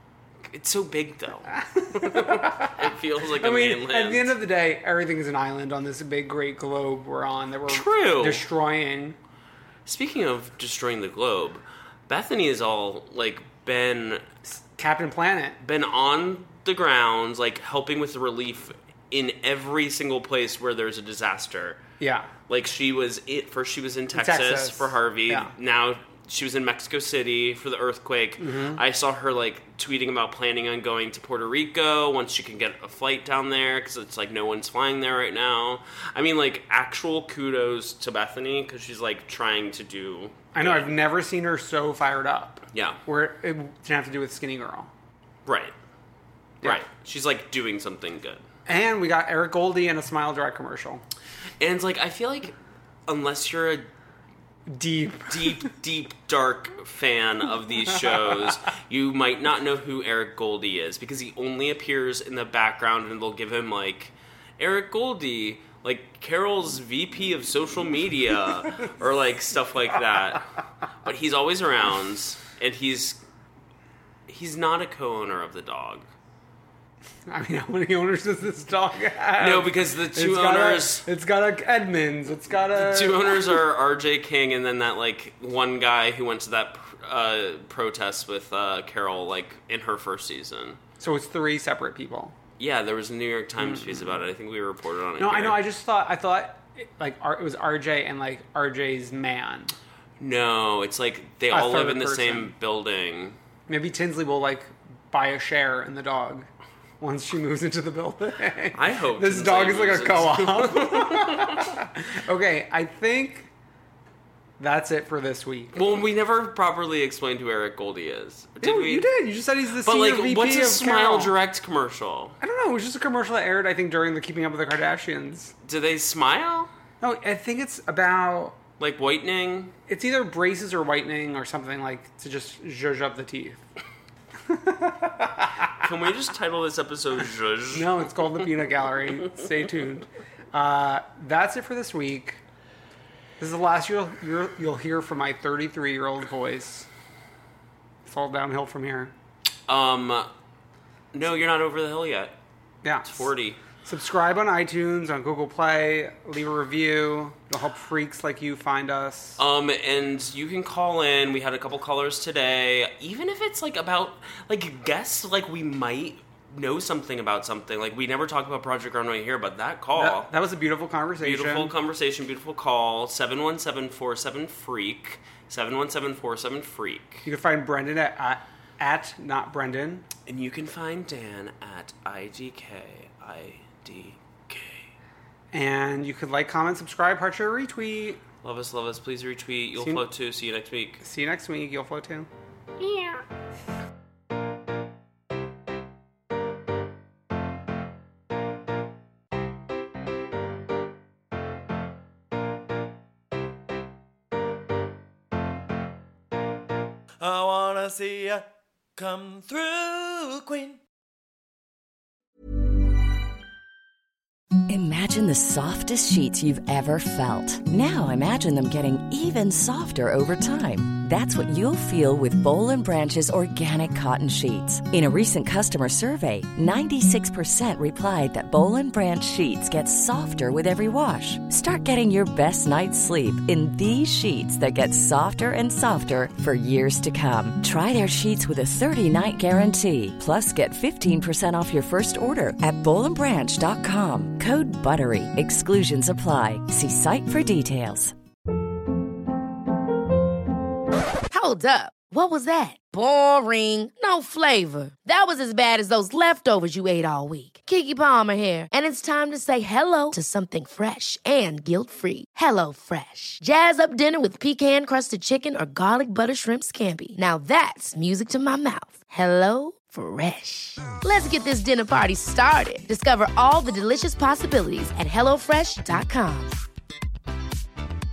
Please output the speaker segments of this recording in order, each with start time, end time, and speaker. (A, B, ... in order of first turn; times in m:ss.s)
0:00.5-0:04.4 A
0:01.5-0:09.2 B
0:07.7-0:08.5 A
0:09.9-0:14.2 A
0:14.5-0:15.6 B
0:15.6-0:21.8 A
0:22.0-0:22.3 B
0:22.5-0:41.0 A
0:24.1-0:25.5 B
0:28.4-0:28.8 B
0:40.5-0:44.9 B
0:42.7-0:43.0 A
0:45.5-0:45.7 A
0:46.6-0:48.4 A
0:48.7-0:51.0 B
0:51.6-0:52.6 A
0:53.1-0:53.9 A
0:54.7-0:55.7 B
0:55.3-1:10.4 A
1:11.0-1:13.2 A
1:14.3-1:16.1 A
1:17.3-1:23.6 B
1:19.4-1:21.1 A
1:22.7-1:30.8 A
1:31.0-1:32.4 B
1:32.6-1:35.6 A
1:33.6-1:34.2 B
1:35.2-1:39.7 B
1:40.2-1:43.4 A
1:41.5-1:42.5 B
1:43.7-1:46.5 B
1:47.0-1:53.5 B
1:48.7-1:51.7 A
1:54.6-1:55.7 B
1:55.7-1:59.1 A
1:58.6-2:01.3 B
1:59.8-2:02.4 A
2:02.4-2:05.5 B
2:05.6-2:06.7 A
2:07.0-2:08.6 B
2:08.8-2:09.7 A
2:09.9-2:13.7 B
2:14.5-2:15.7 B
2:15.8-2:18.1 A
2:17.7-2:22.4 B
2:23.4-2:26.9 B
2:28.0-2:29.1 B
2:29.7-2:30.3 A
2:31.1-2:32.3 A
2:32.8-2:33.3 B
2:33.0-2:33.6 A
2:33.8-2:39.4 B
2:39.4-2:50.3 A
2:50.0-2:51.7 B
2:51.2-2:57.3 A
2:57.2-3:00.1 B
3:00.3-3:04.9 A
3:05.5-3:08.2 B
3:08.4-3:11.0 A
3:09.8-3:10.0 B
3:11.0-3:12.3 B
3:12.8-3:13.2 A
3:27.2-3:30.8 C
3:34.7-4:08.1 D
4:11.3-4:36.6 E